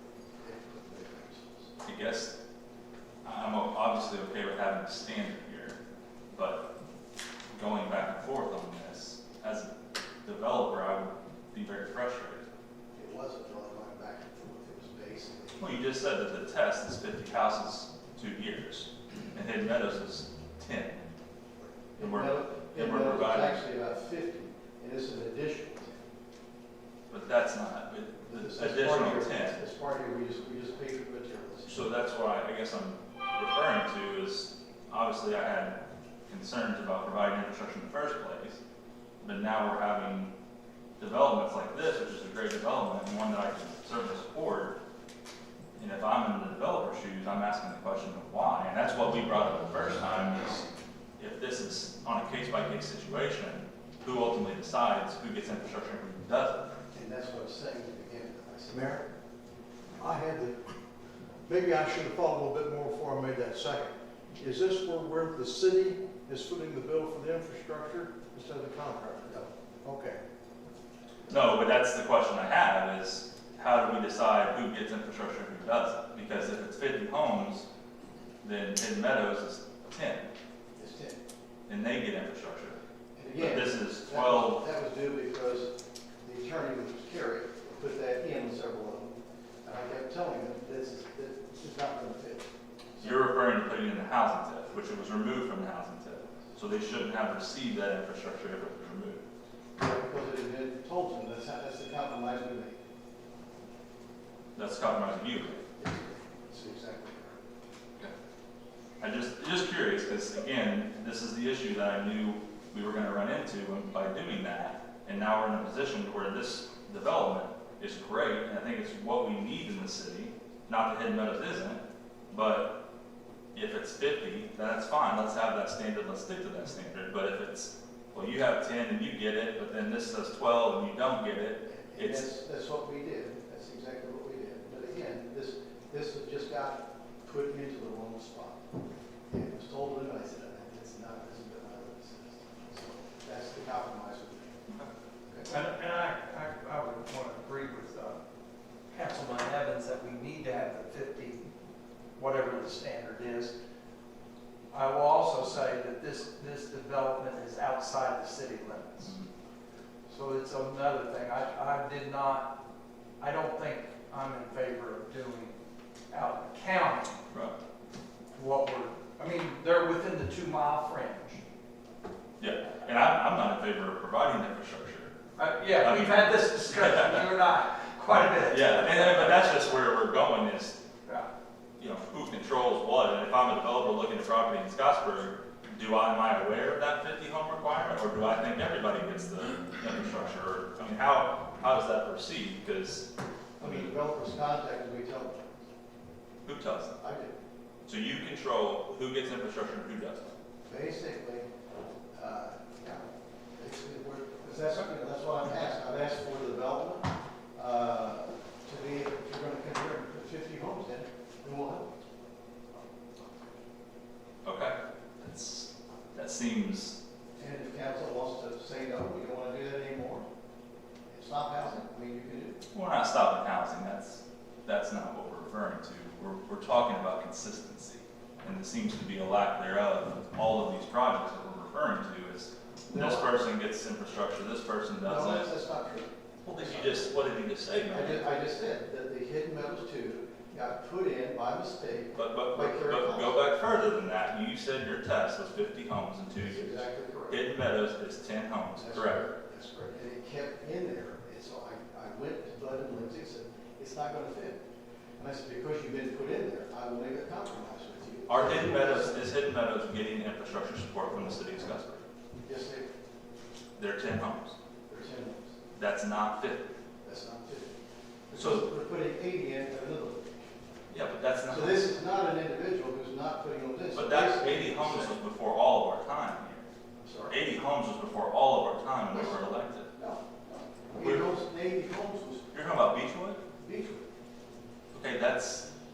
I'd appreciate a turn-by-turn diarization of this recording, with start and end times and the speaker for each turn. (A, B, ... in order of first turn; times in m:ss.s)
0:00.4-0:01.7 A
0:01.8-0:02.4 B
0:03.2-0:05.8 B
0:06.3-0:06.6 B
0:07.5-0:09.7 B
0:10.2-0:12.4 B
0:12.9-0:15.6 A
0:15.6-0:21.0 B
0:21.9-0:26.0 A
0:22.0-0:23.6 B
0:27.1-0:29.6 B
0:28.3-0:31.8 A
0:31.7-0:35.8 B
0:36.3-0:38.6 B
0:39.2-0:40.3 B
0:41.0-0:44.8 B
0:45.8-0:50.7 B
0:51.2-0:56.7 B
0:56.9-0:59.0 A
1:00.0-1:00.5 C
1:01.5-1:09.2 C
1:09.2-1:09.5 A
1:09.8-1:10.2 C
1:11.3-1:17.7 B
1:18.4-1:20.3 B
1:20.8-1:21.2 A
1:21.7-1:22.8 B
1:23.2-1:33.2 A
1:23.4-1:24.6 B
1:33.0-1:39.2 B
1:39.8-1:42.8 A
1:44.6-1:45.6 B
1:45.8-1:47.4 A
1:49.0-2:01.8 B
2:02.3-2:02.7 B
2:03.6-2:12.3 B
2:11.7-2:18.7 A
2:19.3-2:24.6 A
2:25.3-2:25.6 A
2:25.5-2:28.2 D
2:28.9-2:31.4 D
2:32.2-2:33.5 D
2:34.7-2:39.2 D
2:40.1-2:42.5 D
2:43.2-2:45.6 D
2:46.1-2:47.2 D
2:47.3-2:47.6 B
2:48.4-2:51.4 D
2:52.4-2:55.1 B
2:55.4-2:59.6 D
2:55.8-2:57.3 B
2:58.5-3:00.8 B
3:01.8-3:13.1 B
3:13.6-3:13.9 B
3:13.6-3:15.4 A
3:16.4-3:17.0 B
3:17.0-3:17.3 A
3:17.9-3:20.3 B
3:20.7-3:21.5 A
3:22.1-3:31.9 A
3:34.4-3:37.0 B
3:37.4-3:40.3 A
3:41.1-3:42.6 A
3:42.7-3:55.5 B
3:52.9-3:53.4 A
3:55.0-3:57.1 A
3:56.4-3:58.2 B
3:57.9-4:03.4 A
4:02.2-4:09.2 B
4:06.4-4:07.4 A
4:08.8-4:14.6 A
4:15.2-4:19.3 A
4:18.3-4:22.0 B
4:22.4-4:22.9 A
4:23.8-4:24.6 B
4:24.9-4:25.6 A
4:25.8-4:26.7 B
4:27.0-4:30.5 A
4:28.3-4:28.7 B
4:30.9-4:31.9 B
4:31.5-4:35.2 A
4:33.9-4:36.7 B
4:37.0-4:37.4 A
4:37.3-4:39.9 B
4:39.1-4:39.4 A
4:39.9-4:40.3 A
4:40.9-4:42.5 A
4:41.0-4:41.3 B
4:42.5-4:43.4 B
4:43.6-4:44.1 A
4:44.9-4:45.7 B